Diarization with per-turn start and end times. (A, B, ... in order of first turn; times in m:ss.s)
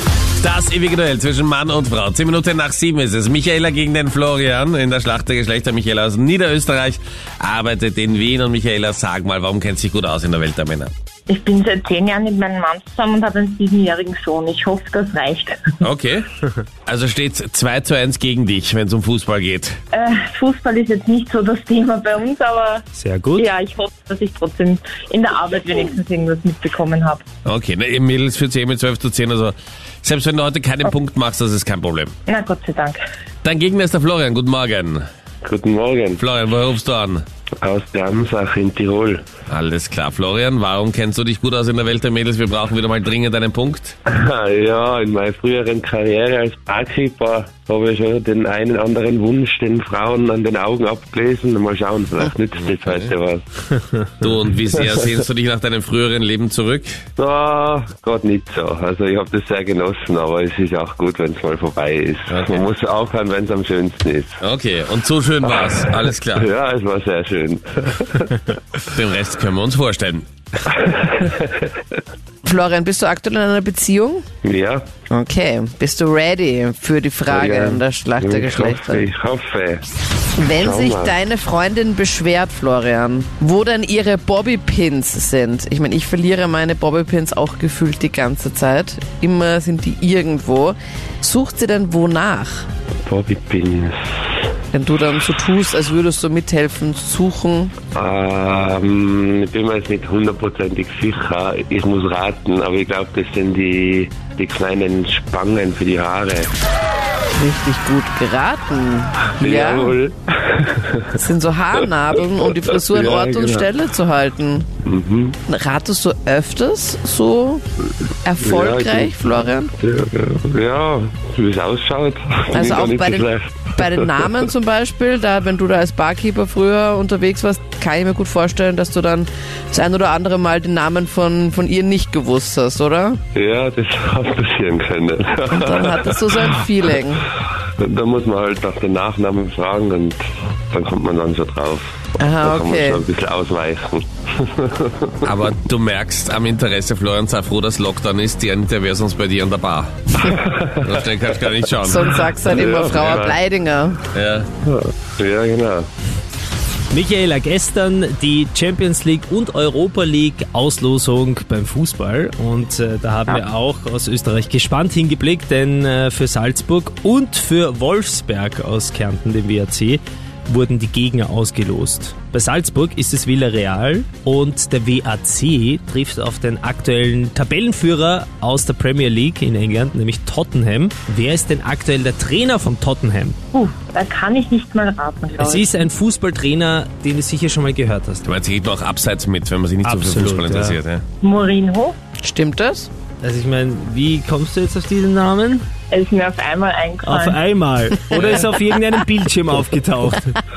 0:00.4-0:10.9 A
0:11.3-0:15.8 B
0:15.8-0:16.3 A
0:16.9-0:19.8 A
0:19.9-0:22.8 B
0:22.9-0:23.5 C
0:23.4-0:27.3 B
0:27.4-0:32.2 A
0:32.3-0:33.0 B
0:33.4-0:35.0 A
0:35.4-0:36.2 D
0:36.2-0:37.2 A
0:37.6-0:39.2 D
0:39.5-0:44.0 A
0:44.1-0:53.4 D
0:52.6-0:53.1 A
0:54.2-0:57.0 A
0:54.7-0:55.1 D
0:57.2-1:04.4 D
1:02.3-1:02.7 A
1:04.4-1:06.5 A
1:05.4-1:08.4 D
1:08.8-1:10.3 A
1:10.7-1:11.7 D
1:12.4-1:14.2 E
1:14.4-1:15.0 D
1:15.1-1:19.0 E
1:17.3-1:19.9 D
1:20.4-1:32.7 E
1:20.6-1:21.2 D
1:33.1-1:34.2 D
1:34.7-1:37.8 E
1:37.9-1:46.5 D
1:47.4-1:50.0 E
1:49.4-1:51.2 D
1:51.2-1:54.7 E
1:52.8-1:53.7 D
1:54.8-1:55.4 D
1:55.5-1:57.6 E
1:58.2-1:59.7 E
1:58.4-2:04.5 D
2:02.6-2:13.2 E
2:13.3-2:16.5 D
2:15.5-2:17.3 E
2:17.8-2:25.3 D
2:22.2-2:23.0 E
2:25.2-2:32.2 A
2:30.2-2:31.1 D
2:31.6-2:33.4 D
2:31.8-2:34.1 E
2:34.1-2:34.5 A
2:34.6-2:35.9 D
2:36.9-3:03.4 C
3:03.5-3:05.7 B
3:05.4-3:08.3 C
3:08.2-3:11.0 A
3:09.8-3:10.8 C
3:11.2-3:12.0 B
3:12.2-3:12.9 E
3:13.2-3:15.6 C
3:15.9-3:17.4 B
3:17.0-3:20.4 C
3:18.1-3:18.5 A